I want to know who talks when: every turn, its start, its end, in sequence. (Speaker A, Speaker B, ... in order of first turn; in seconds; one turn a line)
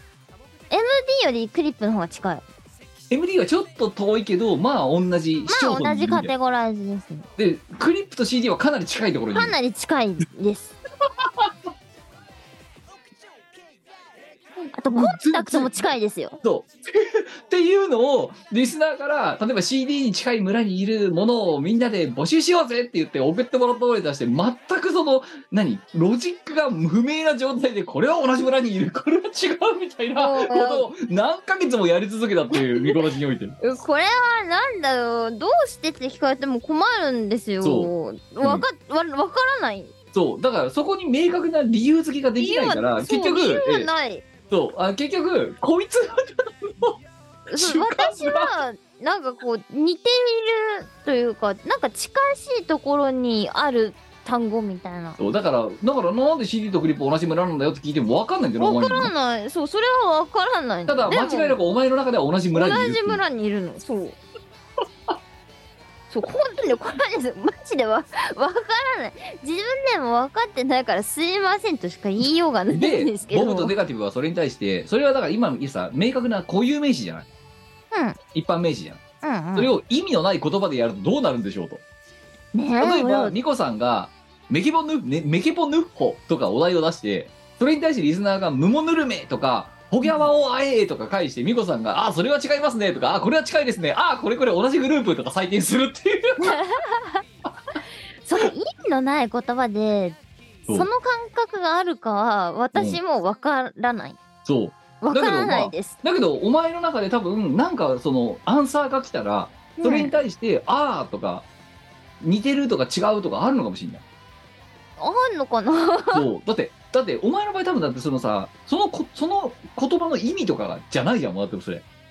Speaker A: 0.7-2.4
Speaker B: 3.1-6.3
Speaker A: 5.5-7.3
Speaker B: 7.4-9.6
Speaker A: 9.3-10.8
Speaker B: 11.2-11.5
Speaker B: 14.6-33.6
Speaker A: 14.7-16.4
Speaker A: 30.1-30.9
Speaker A: 32.5-33.0
Speaker A: 33.6-39.9
Speaker B: 37.6-37.9
Speaker B: 40.1-43.9
Speaker A: 42.4-44.3
Speaker B: 44.5-47.0
Speaker B: 47.5-48.5
Speaker A: 47.5-55.2
Speaker B: 55.2-59.1
Speaker A: 58.6-61.6
Speaker B: 60.9-63.2
Speaker A: 62.5-64.2
Speaker A: 66.1-73.7
Speaker B: 72.7-77.3
Speaker A: 77.9-78.2
Speaker B: 78.3-79.0
Speaker A: 79.2-79.7
Speaker B: 79.5-81.8
Speaker A: 82.5-83.3
Speaker B: 82.8-96.6
Speaker A: 96.4-97.2
Speaker A: 98.2-100.2
Speaker A: 100.7-104.2
Speaker B: 104.4-111.5
Speaker A: 105.0-106.0
Speaker A: 109.8-110.2
Speaker B: 112.2-114.0
Speaker A: 115.0-116.3
Speaker B: 116.1-121.8